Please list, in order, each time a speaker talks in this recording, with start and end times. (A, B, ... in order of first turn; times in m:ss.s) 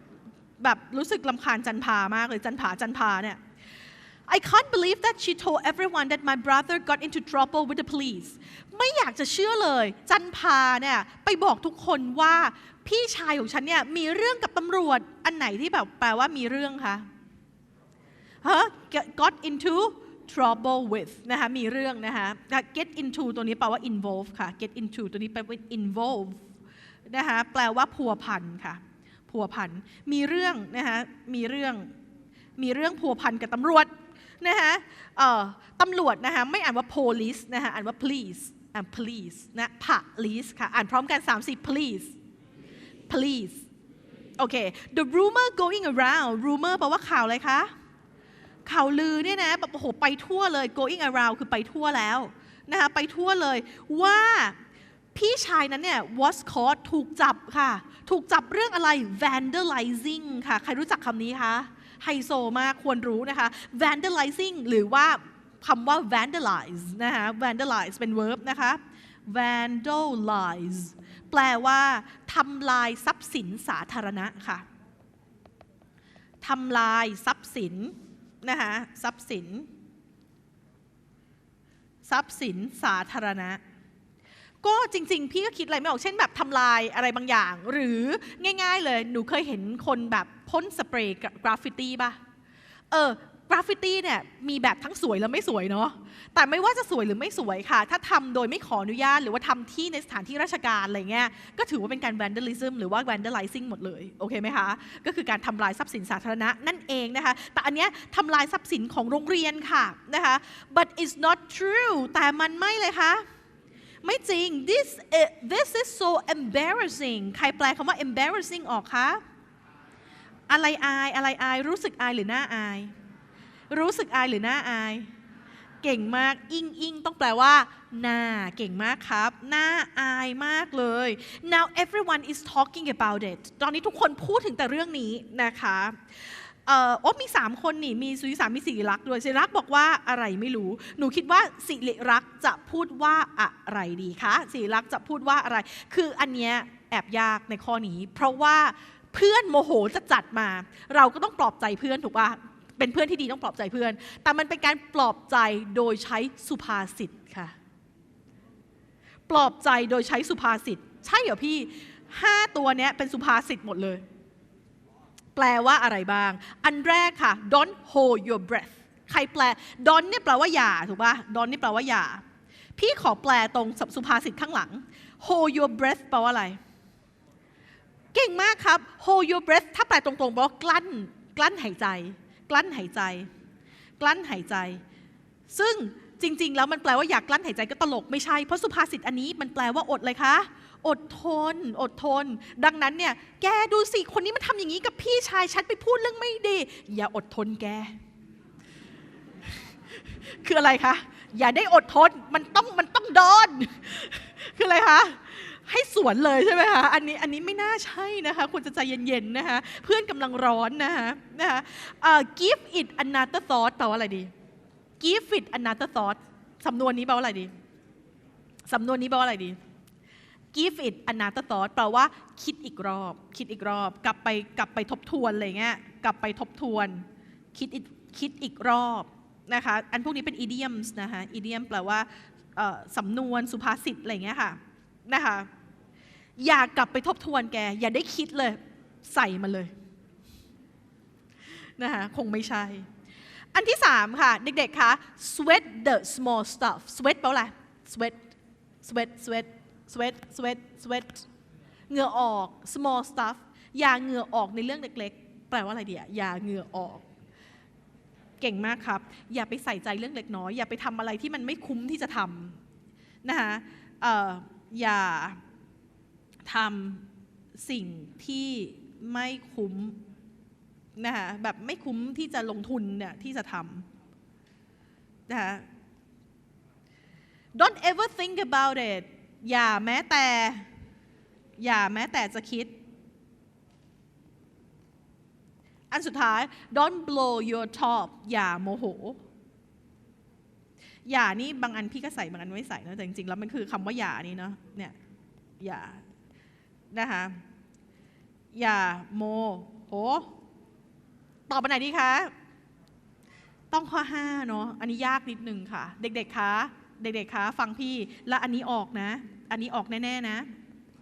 0:00.6-0:03.4 A
0:04.3-0:17.1 A
0:18.4-0:26.4 A
0:27.1-0:31.9 A
0:32.6-0:42.2 A
0:43.1-0:43.7 A
0:44.4-0:47.7 A
0:48.7-0:54.6 A
0:55.1-1:14.6 A
1:16.4-1:19.7 A
1:22.0-1:23.6 A
1:24.6-1:32.2 A
1:32.9-1:53.2 A
1:54.0-1:59.2 A
2:00.5-2:02.9 A
2:03.7-2:05.1 A
2:05.8-2:37.6 A
2:39.3-2:44.0 A
2:45.4-2:52.2 A
2:52.8-2:56.6 A
2:58.1-3:03.3 A
3:04.0-3:04.8 A
3:05.5-3:18.0 A
3:20.2-3:34.3 A
3:35.0-3:37.5 A
3:38.7-3:39.6 A
3:40.5-3:55.5 A
3:56.4-3:59.7 A
4:01.8-4:02.9 A
4:03.5-4:08.2 A
4:08.8-4:11.3 A
4:11.9-4:17.0 A
4:18.4-4:22.6 A
4:23.2-4:25.4 A
4:26.4-4:30.0 A
4:31.0-4:33.9 A
4:35.3-4:35.7 A
4:37.6-4:40.7 A
4:41.6-4:42.7 A
4:45.9-4:49.2 A
4:51.1-4:55.0 A
4:55.6-4:56.0 A
4:56.9-4:57.4 A
4:58.5-5:00.3 A
5:01.5-5:02.3 A
5:03.7-5:10.5 A